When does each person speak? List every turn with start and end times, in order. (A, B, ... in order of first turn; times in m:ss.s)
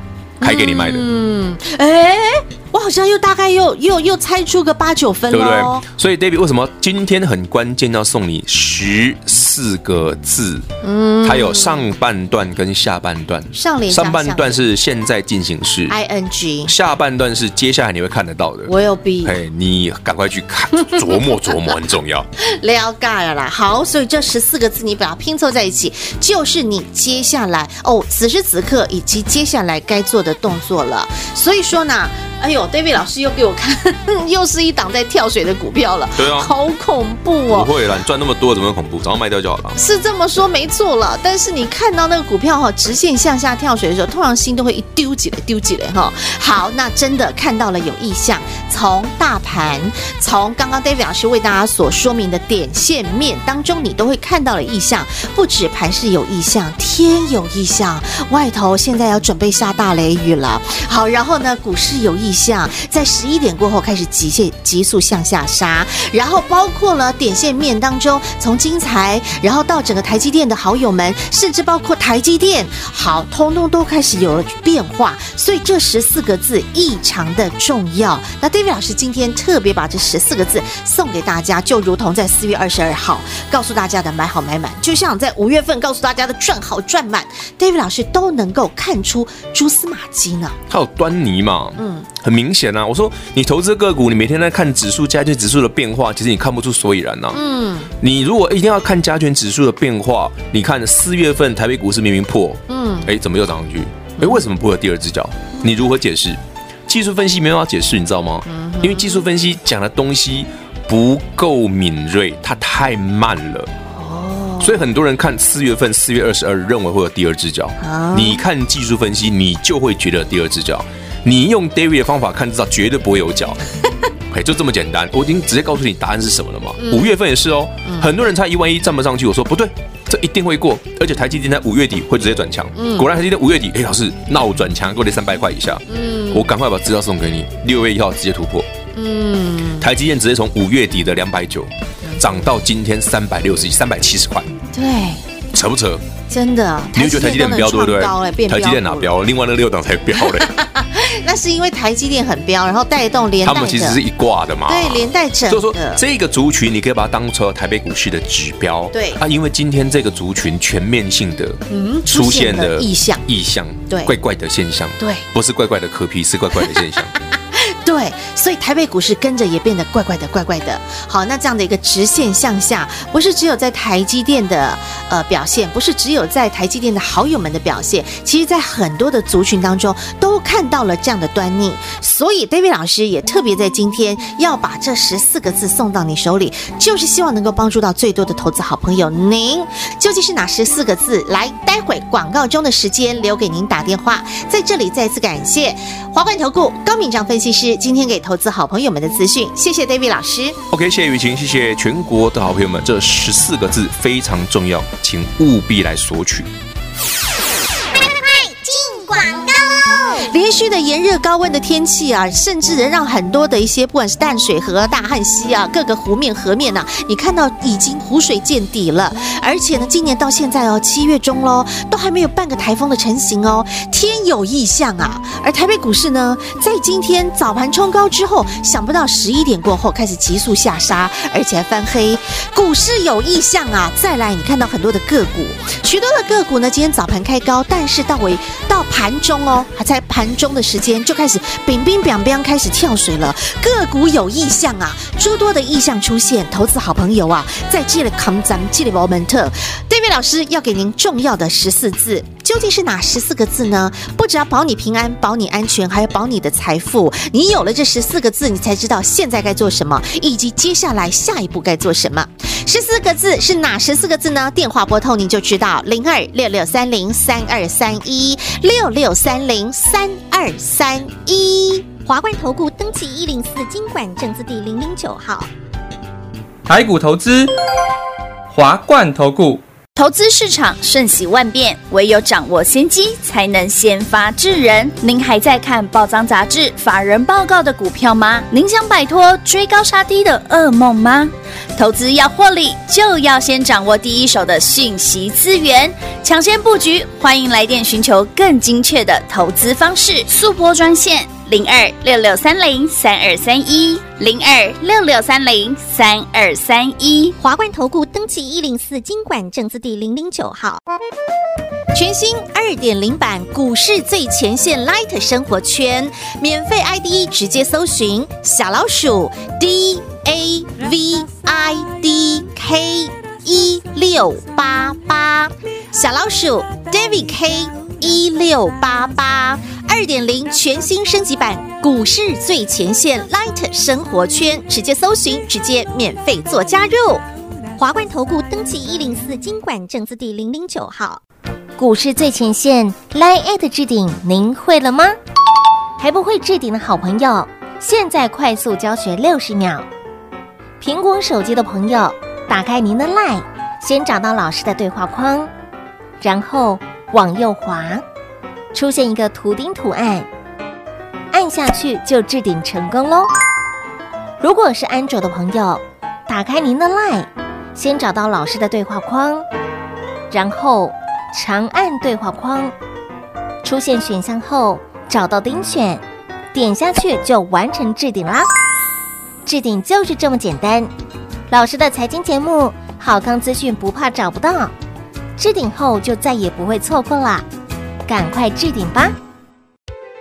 0:00.4-0:01.1 A
0:00.4-0:05.8 B
0:05.3-0:10.7 A
0:10.8-0:11.9 B
0:11.2-0:16.0 A
0:13.5-0:14.6 B
0:15.9-0:16.7 B
0:16.6-0:18.7 A
0:18.7-0:19.4 B
0:19.2-0:22.3 A
0:20.8-0:21.7 B
0:22.4-0:37.7 B
0:36.2-0:36.5 A
0:37.5-0:39.8 A
0:39.8-1:30.6 B
1:30.7-1:37.4 A
1:31.8-1:32.1 B
1:37.3-1:37.9 B
1:38.0-1:53.7 A
1:42.7-1:43.1 B
1:44.2-1:44.4 B
1:48.5-1:49.2 B
1:53.9-1:54.8 B
1:54.6-2:03.6 A
1:57.8-1:58.4 B
2:04.3-2:18.7 A
2:06.8-2:07.2 B
2:07.8-2:08.1 B
2:12.8-2:13.1 B
2:15.9-2:16.5 B
2:18.9-2:19.9 B
2:19.8-2:24.5 A
2:24.7-2:25.2 B
2:25.5-2:26.0 A
2:26.3-2:29.1 B
2:27.0-2:30.5 A
2:30.2-2:34.0 B
2:33.4-2:47.1 A
2:34.7-2:36.0 B
2:38.9-2:39.2 B
2:41.7-2:43.2 B
2:45.0-2:45.2 B
2:47.5-3:20.6 B
3:20.7-3:26.5 A
3:28.2-3:30.1 C
3:30.1-4:31.9 B
4:32.1-4:35.5 D
4:36.7-4:37.5 E
4:38.5-4:39.6 E
4:40.0-5:07.4 F
5:07.4-5:10.8 D
5:11.9-5:37.2 B
5:37.8-5:41.2 D
5:41.8-5:45.2 C
5:46.0-5:49.8 C
5:50.8-5:55.5 C
5:56.2-5:58.0 C
5:58.7-6:00.3 C
6:01.3-6:03.3 C
6:04.4-6:09.5 C
6:10.3-6:12.8 C
6:13.6-6:18.5 C
6:19.5-6:20.9 C
6:21.5-6:24.7 C
6:25.4-6:27.4 C
6:28.1-6:29.2 C